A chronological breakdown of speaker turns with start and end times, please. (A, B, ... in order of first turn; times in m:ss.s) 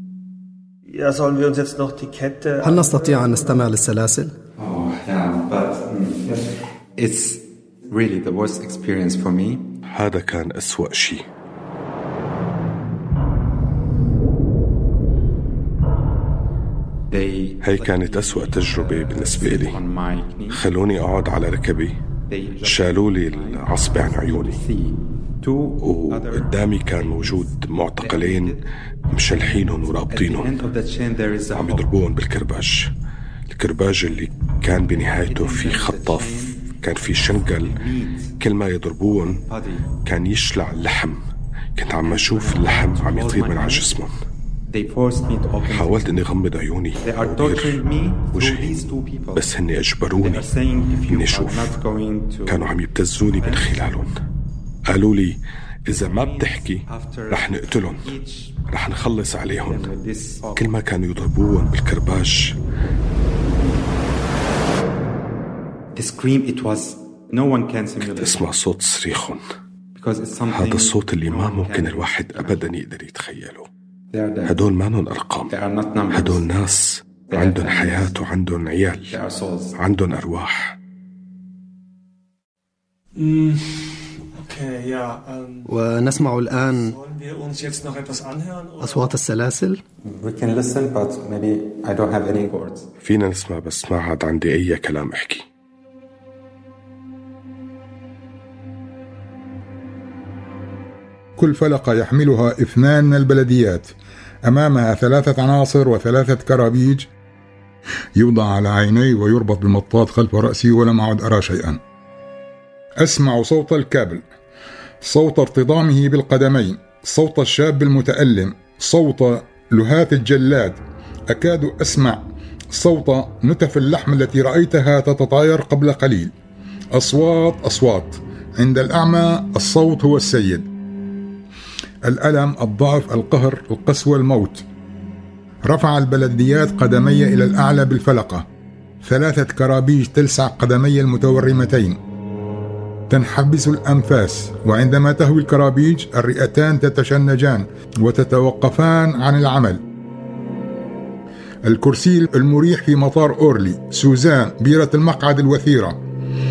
0:00.9-0:03.7 A
0:02.6-0:04.3 B
0:04.6-0:09.7 C
0:09.9-0:11.2 D
0:17.1-0:20.6 C
0:17.6-0:19.8 D
0:20.5-0:22.0 D
0:22.3-0:28.6 C
0:22.6-0:24.6 D
0:25.8-0:28.6 D
0:29.1-0:30.5 D
0:29.2-0:31.9 C
0:31.6-0:32.9 D
0:33.5-0:37.8 D
0:35.0-0:38.3 C
0:38.4-0:39.4 D
0:39.0-0:39.9 C
0:40.0-0:41.2 D
0:41.8-0:44.1 D
0:42.0-0:43.9 C
0:44.7-0:46.2 C
0:45.7-0:47.8 D
0:47.0-0:49.5 C
0:48.3-0:48.7 D
0:49.4-0:51.8 D
0:50.1-0:54.2 C
0:52.5-0:54.2 D
0:54.9-0:58.1 D
0:55.9-0:58.6 C
0:58.7-0:59.9 D
0:59.5-1:00.8 C
1:00.6-1:02.5 D
1:06.0-1:08.5 C
1:08.0-1:09.4 D
1:09.9-1:12.7 C
1:10.5-1:13.7 D
1:14.1-1:14.7 C
1:14.5-1:15.5 D
1:15.5-1:16.4 C
1:16.1-1:19.1 D
1:17.3-1:18.2 C
1:18.9-1:19.8 C
1:19.8-1:20.7 D
1:23.2-1:25.7 A
1:25.7-1:26.9 B
1:26.7-1:29.2 A
1:28.8-1:29.8 B
1:30.0-1:32.9 C
1:33.0-1:35.4 D
1:41.4-1:43.9 E
1:44.5-1:47.1 E
1:48.2-1:51.8 E
1:53.0-1:54.2 E
1:55.0-2:00.8 E
2:01.3-2:06.3 E
2:06.9-2:10.7 E
2:12.1-2:14.6 E
2:15.7-2:18.5 E
2:19.0-2:22.0 E
2:23.1-2:29.8 E
2:31.7-2:36.0 E